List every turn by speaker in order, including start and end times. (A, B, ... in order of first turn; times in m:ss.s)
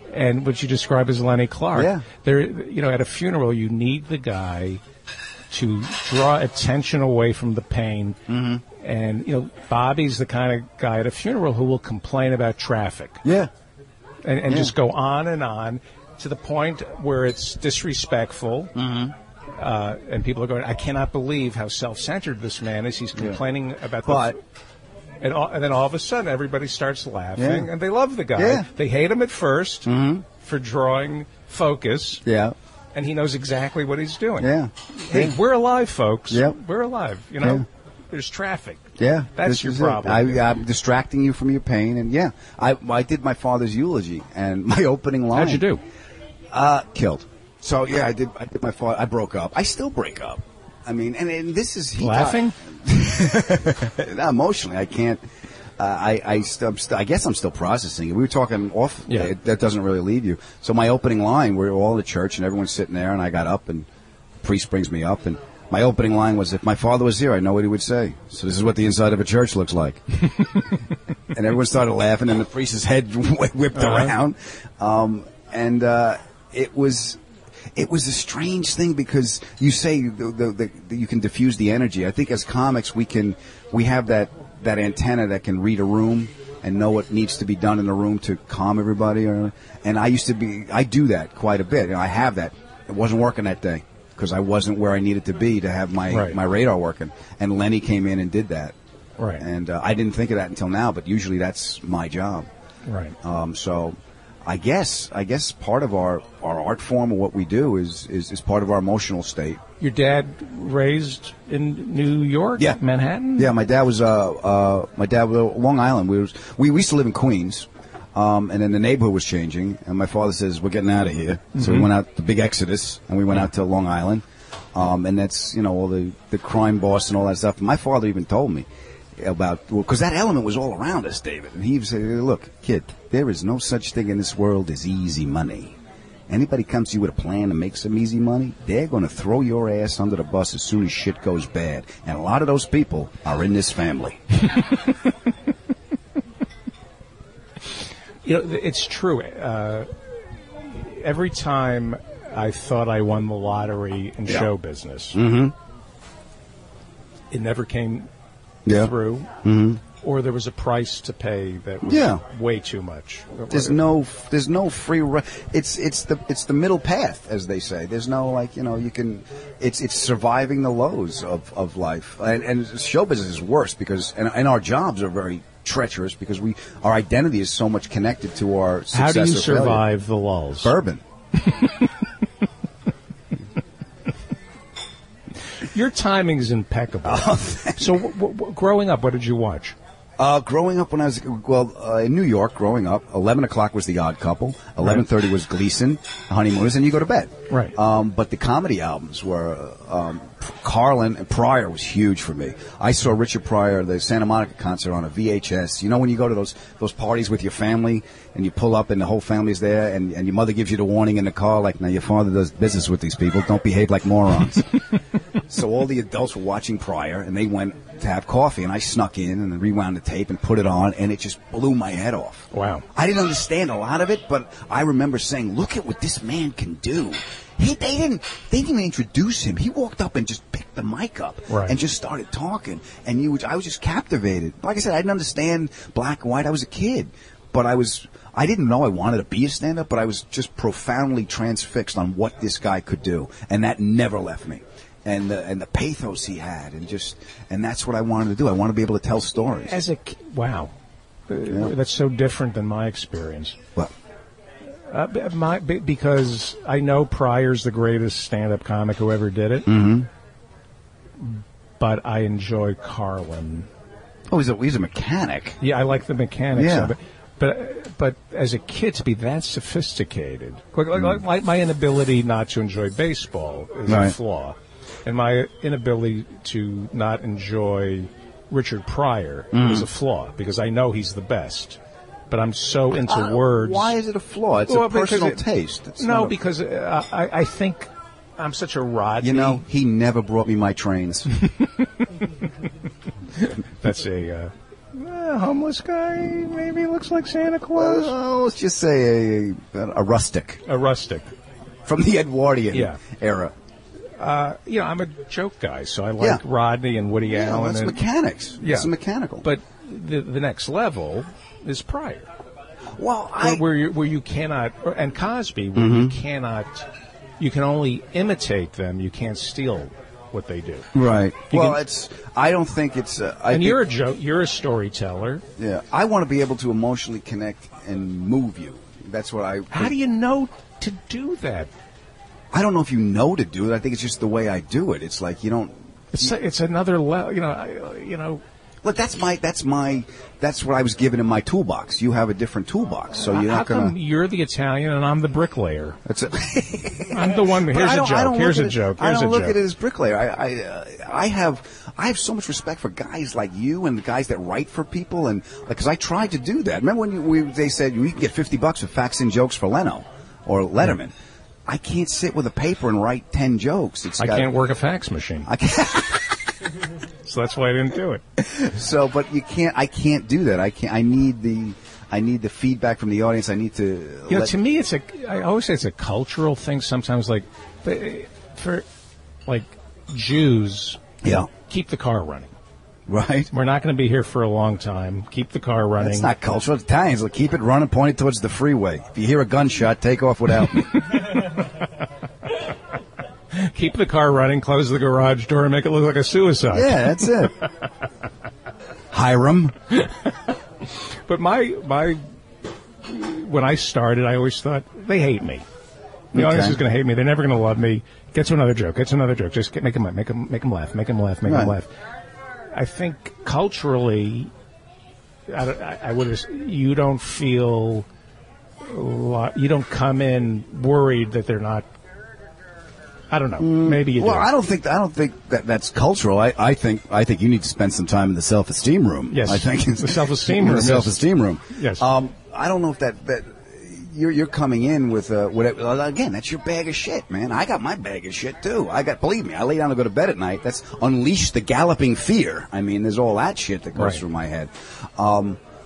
0:00.1-0:04.8 A
0:01.7-0:02.0 B
0:05.5-0:08.2 A
0:08.3-0:08.6 B
0:08.8-0:13.2 A
0:13.2-0:13.5 B
0:14.2-0:18.8 A
0:18.8-0:19.2 B
0:19.6-0:24.4 A
0:24.1-0:24.4 B
0:25.2-0:32.2 A
0:27.4-0:27.7 B
0:28.4-0:28.7 B
0:29.8-0:30.2 B
0:32.2-0:32.6 B
0:33.0-0:40.4 A
0:34.4-0:35.4 B
0:36.3-0:36.6 B
0:39.0-0:45.6 B
0:45.3-0:45.8 A
0:46.5-0:55.2 B
0:52.0-0:52.6 A
0:55.8-1:03.9 B
1:04.4-1:10.7 B
1:11.3-1:17.2 B
1:13.8-1:14.1 A
1:17.8-1:38.8 B
1:36.1-1:36.4 A
1:39.2-1:39.4 A
1:39.4-1:42.5 B
1:42.9-1:43.2 A
1:43.2-1:49.6 B
1:49.8-1:53.5 A
1:53.4-2:08.7 B
2:01.6-2:01.9 A
2:09.2-2:15.8 B
2:16.3-2:24.4 B
2:28.2-2:35.2 A
2:35.1-2:35.6 B
2:37.3-2:38.1 A
2:38.7-2:39.8 B
2:38.7-2:39.3 A
2:40.0-2:43.8 A
2:41.8-2:42.2 B
2:43.5-2:59.8 B
2:58.9-3:00.7 A
3:00.6-3:01.0 B
3:05.6-3:09.8 A
3:07.0-3:07.9 B
3:10.2-3:34.8 B
3:17.5-3:17.8 A
3:35.4-4:09.8 B
3:42.5-3:42.9 A
3:51.5-3:51.8 A
4:09.6-4:10.7 A
4:11.3-4:13.6 A
4:14.9-4:19.7 A
4:19.7-4:20.1 B
4:21.2-4:23.7 A
4:24.3-4:25.6 B
4:25.6-4:41.8 A
4:26.6-4:26.9 B
4:33.9-4:34.2 B
4:39.5-4:39.9 B
4:42.3-4:43.9 A
4:43.0-4:46.4 B
4:44.7-4:45.4 A
4:46.0-4:49.6 A
4:49.2-4:51.4 B
4:51.5-4:51.9 A
4:53.4-4:58.1 A
4:57.8-5:00.6 B
5:00.7-5:01.3 A
5:01.9-5:03.5 B
5:02.7-5:03.0 A
5:04.2-5:08.0 A
5:07.3-5:09.4 B
5:08.6-5:08.9 A
5:09.4-5:12.3 A
5:13.0-5:13.6 B
5:13.4-5:16.9 A
5:15.8-5:16.2 B
5:17.4-5:20.9 A
5:20.9-5:23.8 B
5:21.5-5:21.8 A
5:23.5-5:25.4 A
5:25.6-5:29.9 B
5:29.7-5:31.7 A
5:32.5-5:36.3 B
5:36.1-5:38.4 A
5:38.8-5:44.0 B
5:43.1-5:46.0 A
5:46.0-6:01.1 B
5:47.1-5:49.6 A
6:01.7-6:04.5 B
6:04.2-6:05.5 A
6:05.5-6:06.7 B
6:07.2-6:08.2 A
6:08.4-6:14.6 B
6:14.3-6:18.8 A
6:19.5-6:22.5 A
6:21.2-6:21.5 B
6:23.1-6:23.5 B
6:23.5-6:26.3 A
6:26.0-6:31.2 B
6:31.2-6:31.5 A
6:33.5-6:37.5 A
6:36.7-6:37.6 B
6:39.1-6:39.8 B
6:40.0-6:40.5 A
6:41.3-6:42.2 A
6:43.0-6:45.6 A
6:46.3-6:51.9 A
6:46.3-6:46.8 B
6:51.4-6:51.8 B
6:52.7-6:54.5 A
6:55.5-6:58.1 A
6:58.8-7:01.9 A
7:03.3-7:04.5 A
7:03.6-7:25.6 B
7:09.3-7:11.2 A
7:11.7-7:12.0 A
7:24.0-7:24.2 A